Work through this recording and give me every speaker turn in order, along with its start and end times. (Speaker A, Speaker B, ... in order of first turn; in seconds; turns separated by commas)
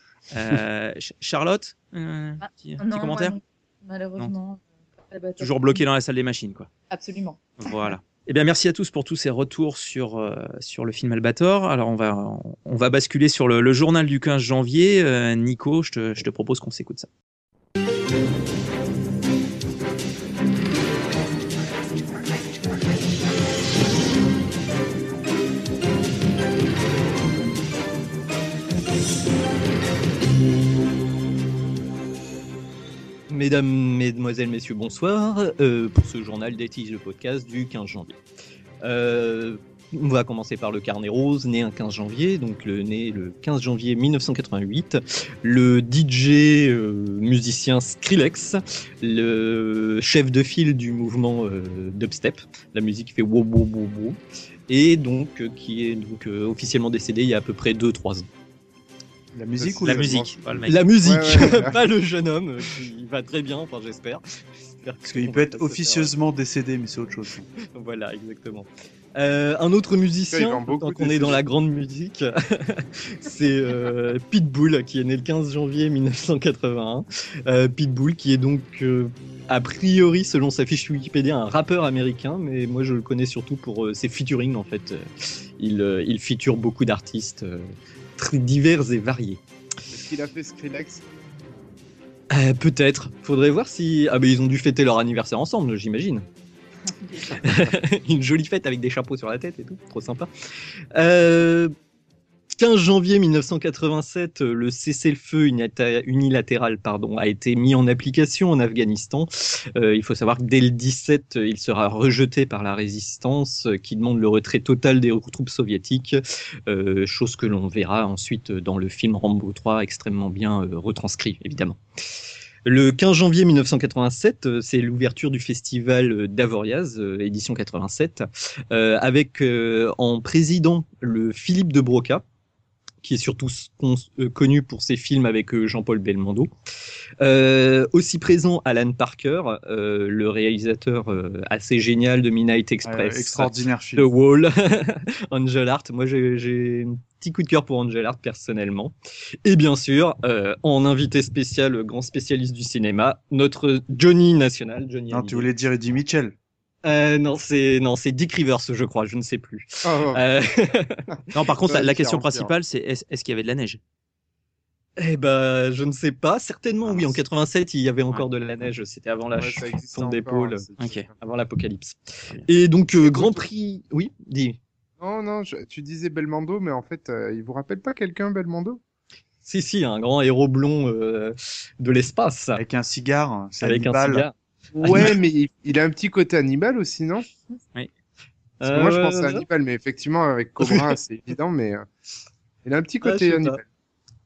Speaker A: 0.3-3.4, Speaker B: 2.4-5.8, Speaker A: 5.4-6.7, Speaker B: 6.9-7.8, Speaker A: 7.6-17.1, Speaker C: 33.3-38.2, Speaker C: 38.8-58.3, Speaker D: 59.3-60.6, Speaker E: 59.6-61.8, Speaker A: 59.8-60.8, Speaker C: 60.7-64.2, Speaker C: 64.8-66.1, Speaker D: 65.0-67.5, Speaker C: 67.6-85.1, Speaker E: 70.3-71.4, Speaker C: 85.6-89.4, Speaker E: 89.9-91.0, Speaker C: 92.3-96.2, Speaker B: 97.1-97.4, Speaker C: 97.4-100.3, Speaker C: 100.9-101.7, Speaker C: 102.6-121.8, Speaker C: 122.7-132.2, Speaker C: 133.0-136.5, Speaker C: 137.2-148.9, Speaker D: 142.8-144.1, Speaker C: 149.4-155.5, Speaker D: 155.1-156.3, Speaker C: 156.8-161.1, Speaker E: 159.8-160.2, Speaker A: 161.3-163.8, Speaker E: 161.6-162.6, Speaker C: 165.0-170.7, Speaker A: 166.8-167.2, Speaker E: 169.3-171.1, Speaker A: 170.8-171.1, Speaker C: 171.2-174.6, Speaker E: 175.0-178.8, Speaker C: 179.4-182.6, Speaker D: 182.6-184.3, Speaker C: 183.6-185.2, Speaker E: 184.7-187.3, Speaker C: 188.6-189.5, Speaker E: 188.6-191.9, Speaker C: 190.6-190.9, Speaker E: 192.6-193.6, Speaker C: 193.0-193.5